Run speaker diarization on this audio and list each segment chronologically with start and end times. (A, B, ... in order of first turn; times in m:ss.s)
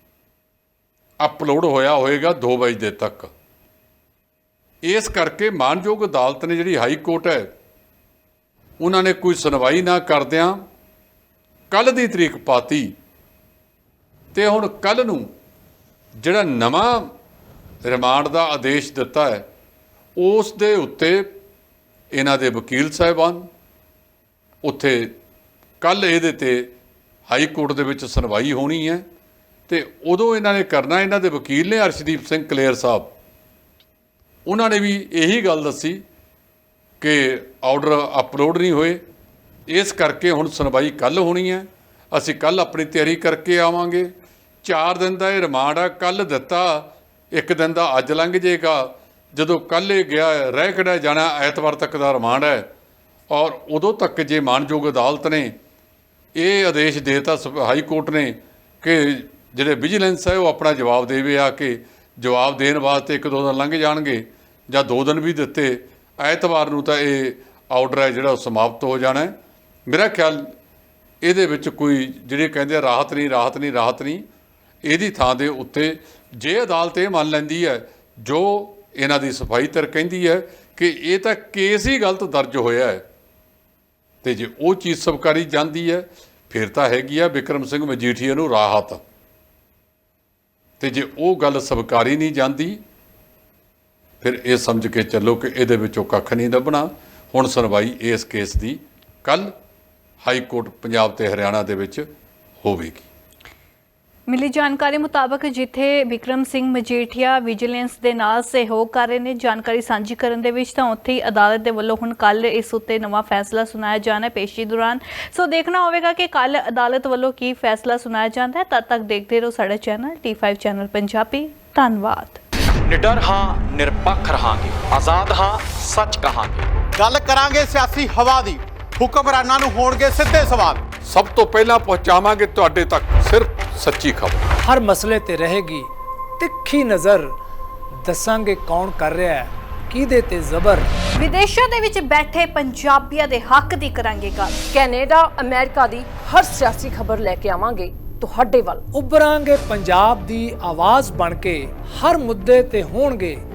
0:01.2-0:03.3 A
0:04.8-0:07.5 A
0:08.8-0:10.6 A
0:11.7-0:12.9 A
0:14.3-0:15.3 A
0:16.2-0:17.1 A
0:17.8-0:19.4 A
0:20.2-0:21.3 A
0:22.1-0:23.4 A
0:24.6-0:25.1 A
0:25.8-0:26.7 A
0:27.3-0:29.0 A
0:29.7-0:33.1 A
0:34.5-0:36.0 A
0:37.0-0:39.0 A
0:39.7-0:44.1 A
0:44.6-0:52.7 A
0:53.3-0:55.6 A
0:56.4-1:09.3 A
1:09.9-1:10.5 A
1:11.2-1:14.2 A
1:14.9-1:23.0 A
1:24.2-1:29.0 A
1:30.8-1:32.8 A
1:34.2-1:39.5 A
1:40.2-1:42.1 A
1:42.6-1:43.0 A
1:44.3-2:02.4 B
2:02.9-2:06.7 C
2:07.0-2:10.8 D
2:11.1-2:14.4 A
2:14.6-2:17.3 E
2:18.0-2:20.9 E
2:21.2-2:24.6 B
2:24.7-2:28.9 F
2:28.9-2:33.4 E